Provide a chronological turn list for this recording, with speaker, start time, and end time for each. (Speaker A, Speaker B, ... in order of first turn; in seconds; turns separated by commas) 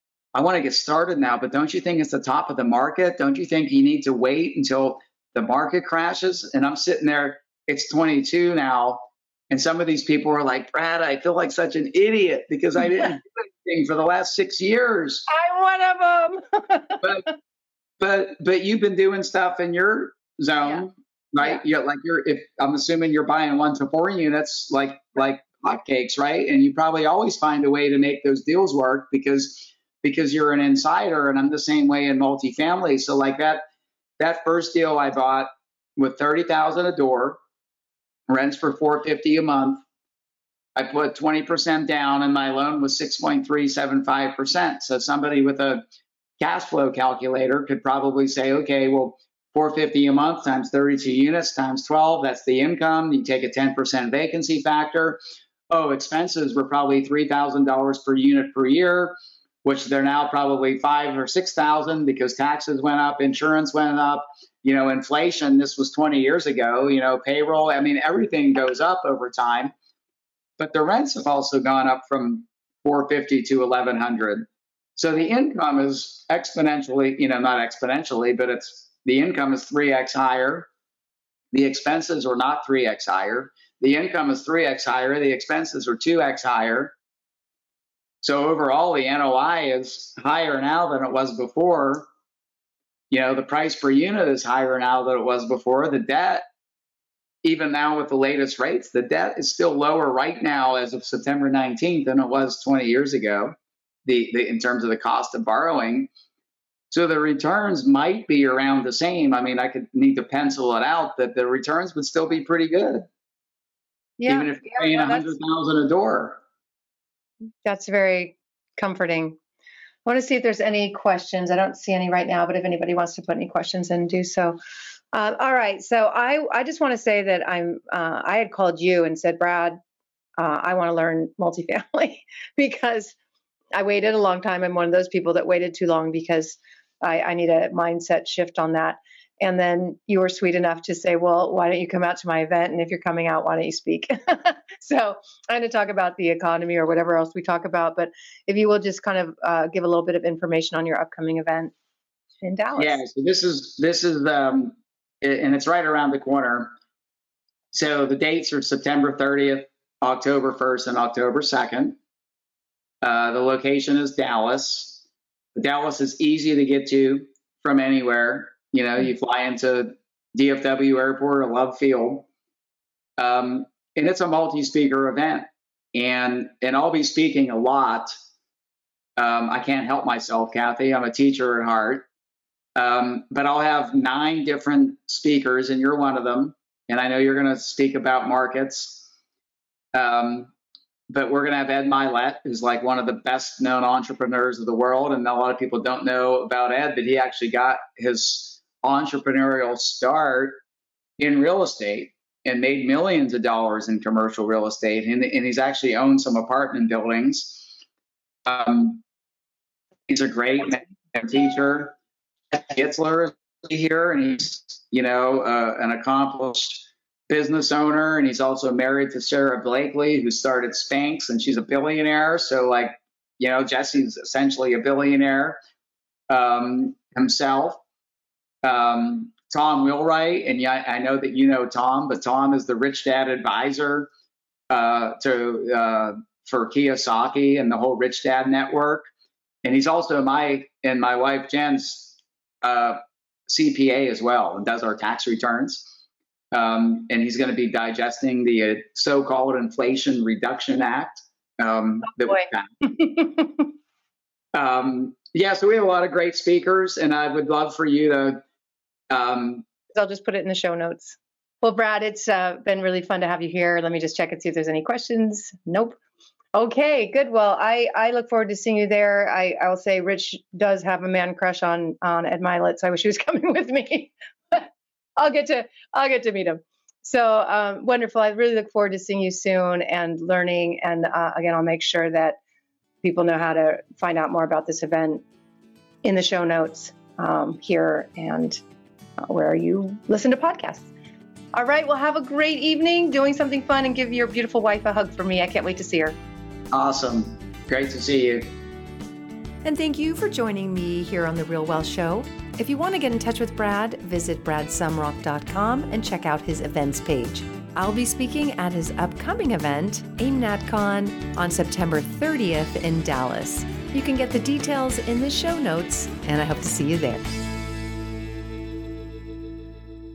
Speaker A: 0.3-15.3, Speaker B: 15.3-17.0, Speaker A: 17.0-17.3, Speaker A: 18.0-33.6, Speaker A: 34.2-37.4, Speaker A: 38.3-39.8, Speaker A: 40.8-45.8, Speaker A: 46.4-69.7, Speaker A: 70.6-80.7, Speaker A: 81.5-86.9, Speaker A: 88.2-92.1, Speaker A: 93.1-96.5, Speaker A: 97.4-103.5, Speaker A: 104.0-106.1, Speaker A: 106.9-113.1, Speaker B: 114.2-115.3, Speaker A: 114.3-116.4, Speaker B: 117.6-119.4, Speaker B: 120.0-124.6, Speaker B: 125.1-129.8, Speaker B: 130.4-133.1, Speaker B: 133.7-151.7, Speaker B: 152.4-153.0, Speaker A: 152.8-156.7, Speaker A: 157.7-162.0, Speaker A: 163.0-165.0, Speaker A: 165.5-172.3, Speaker A: 173.2-178.2, Speaker A: 179.2-182.1, Speaker A: 182.8-189.1, Speaker A: 189.9-190.5, Speaker A: 191.1-200.6, Speaker A: 201.2-207.7, Speaker A: 208.4-209.0, Speaker A: 210.1-211.9, Speaker A: 212.5-225.6, Speaker A: 226.3-227.8, Speaker A: 228.6-234.1, Speaker A: 234.7-239.1, Speaker A: 239.6-245.9, Speaker A: 246.5-252.7, Speaker B: 253.0-253.5, Speaker A: 254.5-258.4, Speaker A: 259.1-259.6, Speaker B: 259.9-266.0, Speaker B: 266.5-282.4, Speaker B: 283.0-285.2, Speaker B: 286.0-288.6, Speaker B: 289.2-290.9, Speaker B: 291.5-296.2, Speaker A: 296.7-298.5, Speaker C: 299.6-317.3